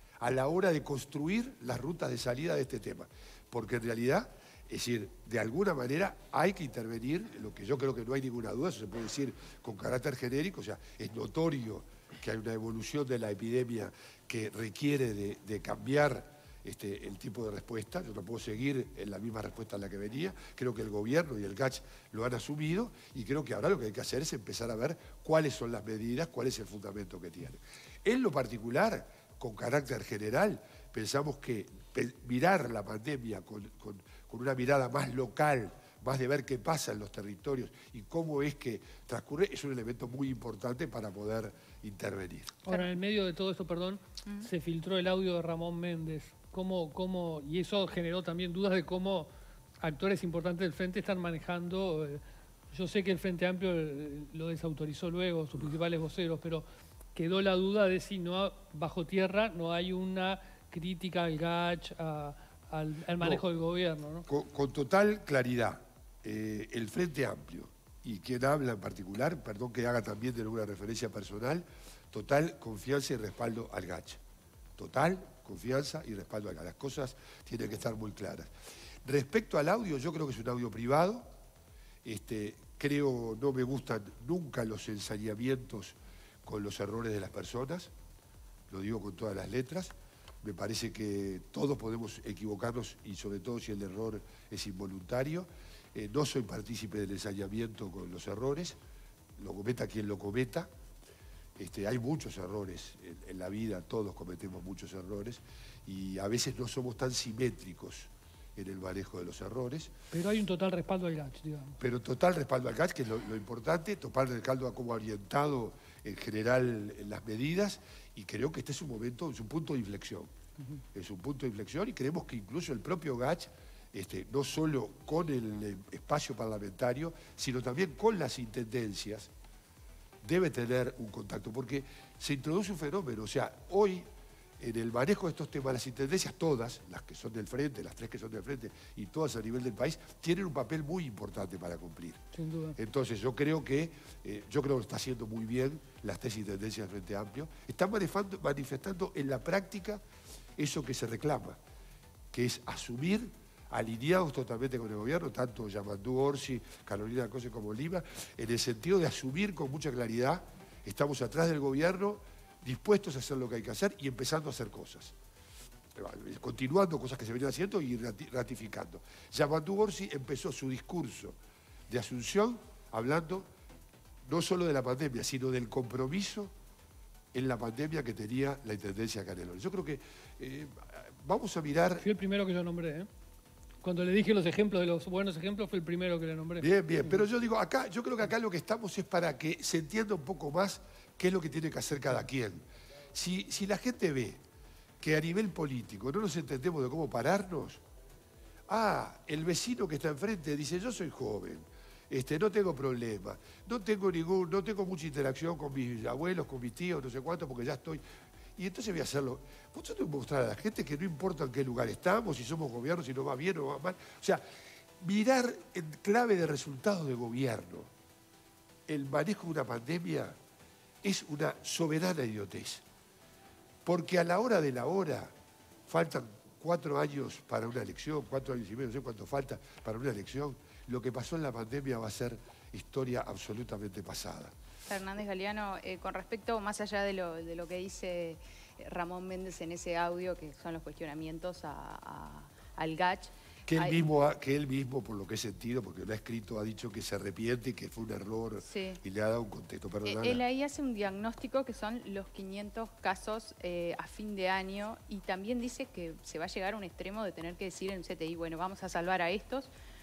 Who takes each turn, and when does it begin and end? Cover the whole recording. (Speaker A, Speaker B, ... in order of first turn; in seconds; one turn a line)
Speaker A: 0.2-42.5
Speaker B: 42.6-49.3
Speaker B: 49.8-64.3
Speaker A: 63.2-63.4
Speaker A: 64.3-74.2
Speaker A: 74.8-78.5
Speaker A: 79.0-81.3
Speaker A: 82.0-87.9
Speaker A: 88.7-98.8
Speaker A: 99.4-100.7
Speaker A: 101.6-109.9
Speaker B: 110.1-111.8
Speaker A: 111.8-120.3
Speaker A: 120.9-129.3
Speaker A: 130.2-134.1
Speaker A: 134.6-142.2
Speaker B: 142.3-142.8
Speaker A: 142.8-150.0
Speaker A: 150.6-151.6
Speaker A: 152.3-165.1
Speaker A: 165.9-171.4
Speaker A: 171.9-173.5
Speaker A: 174.3-176.5
Speaker A: 177.3-182.1
Speaker B: 182.0-183.1
Speaker B: 183.8-187.2
Speaker A: 186.6-194.4
Speaker A: 195.0-197.8
Speaker A: 198.7-208.0
Speaker A: 208.6-214.4
Speaker A: 215.0-217.9
Speaker A: 218.9-220.4
Speaker A: 221.0-222.8
Speaker A: 223.8-225.3
Speaker A: 225.9-234.5
Speaker C: 234.9-244.0
Speaker A: 243.7-250.4
Speaker C: 248.7-249.0
Speaker C: 250.1-259.7